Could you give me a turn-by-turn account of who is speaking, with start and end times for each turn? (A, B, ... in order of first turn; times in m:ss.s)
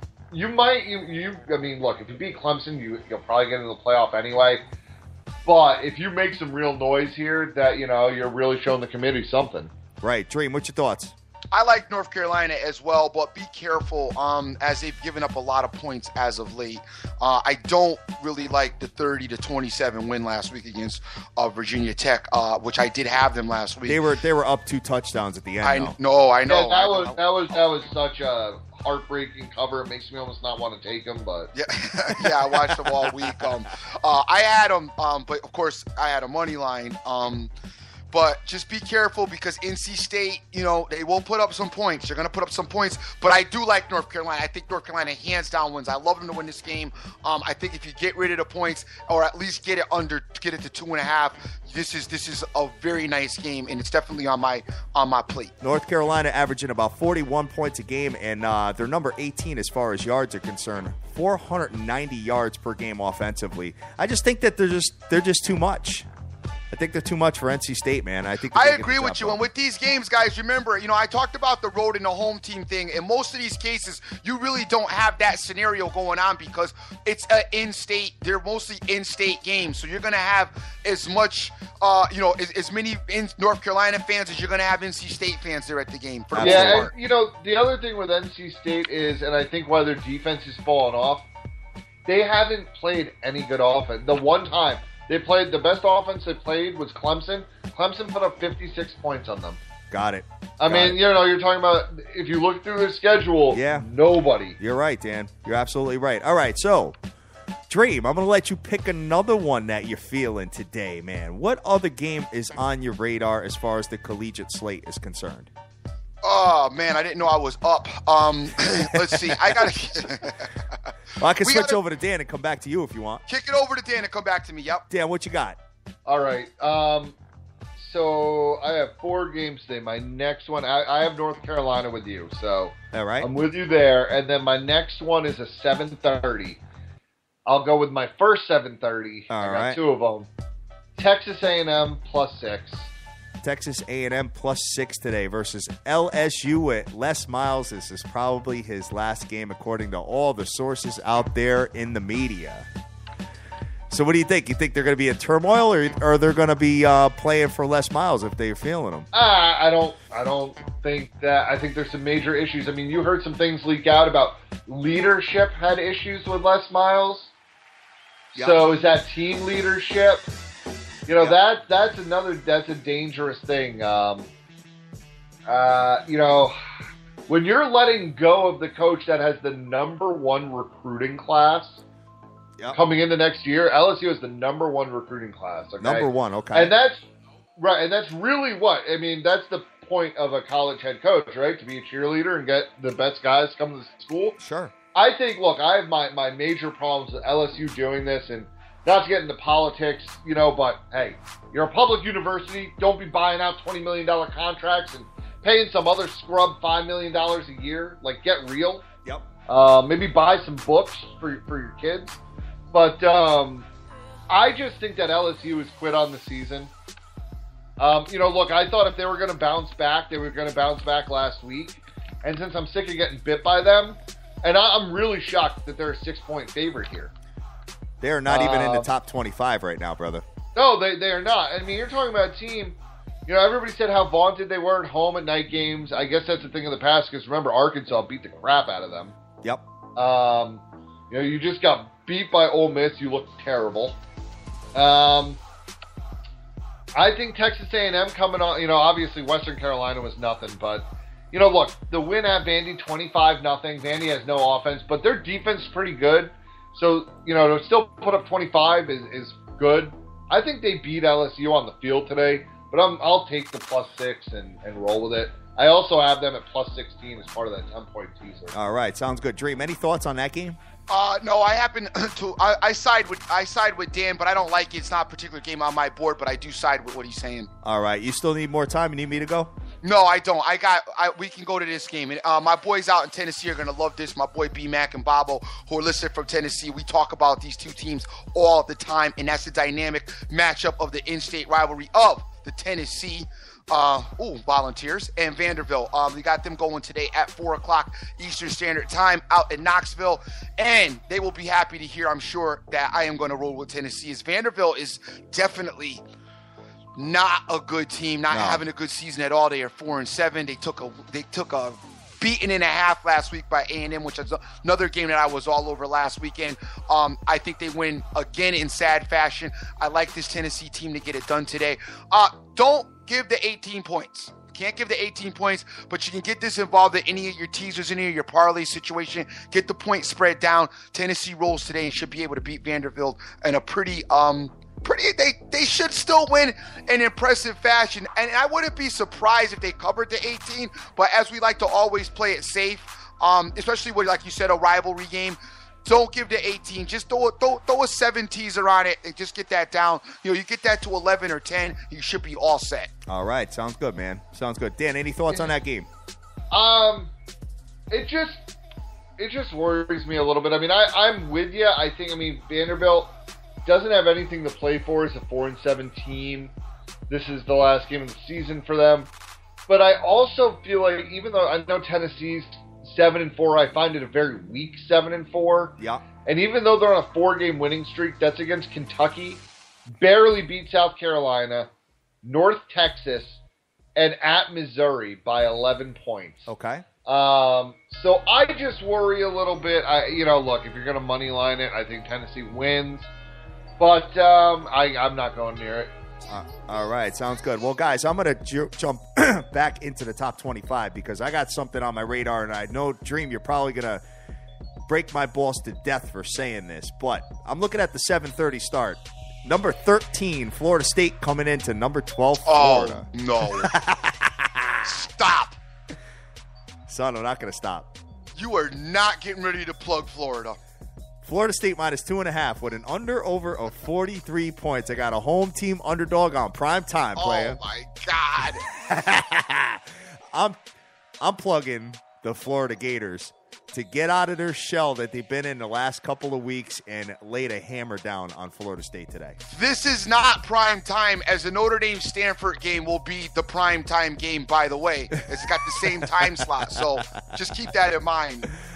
0:00.3-0:04.6 A
0:05.4-0:09.7 A
0:10.0-0:11.1 B
0:11.5-0:24.0 C
0:23.9-0:26.0 B
0:25.6-0:27.2 C
0:26.5-0:31.5 A
0:31.6-0:37.5 C
0:32.2-0:33.4 B
0:38.1-0:55.5 C
0:55.6-1:06.1 B
1:06.7-1:09.4 B
1:08.5-1:26.9 C
1:26.3-1:26.9 B
1:26.4-1:31.3 A
1:32.0-1:39.6 A
1:39.9-1:41.0 B
1:40.6-1:44.6 A
1:43.5-1:43.9 B
1:44.6-1:47.0 B
1:47.7-1:55.5 B
1:56.2-2:00.5 C
1:58.7-1:59.7 B
2:01.2-2:03.2 B
2:01.4-2:01.8 C
2:03.3-2:04.9 C
2:04.9-2:05.6 B
2:06.1-2:07.2 A
2:07.8-2:16.6 A
2:12.9-2:13.3 B
2:17.5-2:20.3 A
2:19.3-2:19.8 B
2:21.0-2:22.9 A
2:23.4-2:32.7 B
2:33.9-2:39.1 B
2:39.1-2:47.3 A
2:48.4-2:50.2 A
2:48.4-2:48.7 B
2:51.1-2:54.3 A
2:55.5-2:56.6 A
2:57.3-3:01.8 A
3:02.7-3:07.1 A
3:05.8-3:06.7 B
3:07.6-3:14.4 A
3:14.4-3:14.7 B
3:14.9-3:28.9 A
3:29.5-3:32.2 A
3:32.7-3:33.7 A
3:34.3-3:36.7 A
3:37.8-3:47.1 A
3:48.0-3:50.2 B
3:48.3-3:48.9 A
3:50.6-3:59.2 A
4:00.0-4:04.0 A
4:04.8-4:05.4 A
4:07.0-4:28.6 A
4:28.5-4:30.6 B
4:30.9-4:37.5 C
4:37.6-4:39.5 B
4:39.8-5:06.0 C
5:07.0-5:52.9 C
5:08.3-5:08.6 B
5:53.1-5:55.9 B
5:56.5-5:57.1 A
5:57.9-5:58.5 A
5:59.2-6:03.1 A
6:03.6-6:06.5 A
6:07.1-6:09.1 A
6:09.7-6:15.8 A
6:15.8-6:16.0 B
6:16.3-6:19.4 A
6:20.0-6:21.7 A
6:22.2-6:23.4 A
6:24.0-6:26.5 A
6:26.5-6:26.8 B
6:27.0-6:33.1 A
6:33.8-6:35.9 A
6:36.3-6:44.0 B
6:44.9-6:54.9 B
6:52.4-6:53.7 C
6:54.8-6:55.6 C
6:56.9-6:57.9 B
6:58.4-7:00.6 C
7:01.2-7:07.6 B
7:07.2-7:08.6 C
7:08.8-7:10.6 B
7:11.2-7:19.4 B
7:19.5-7:28.5 C
7:25.8-7:27.6 B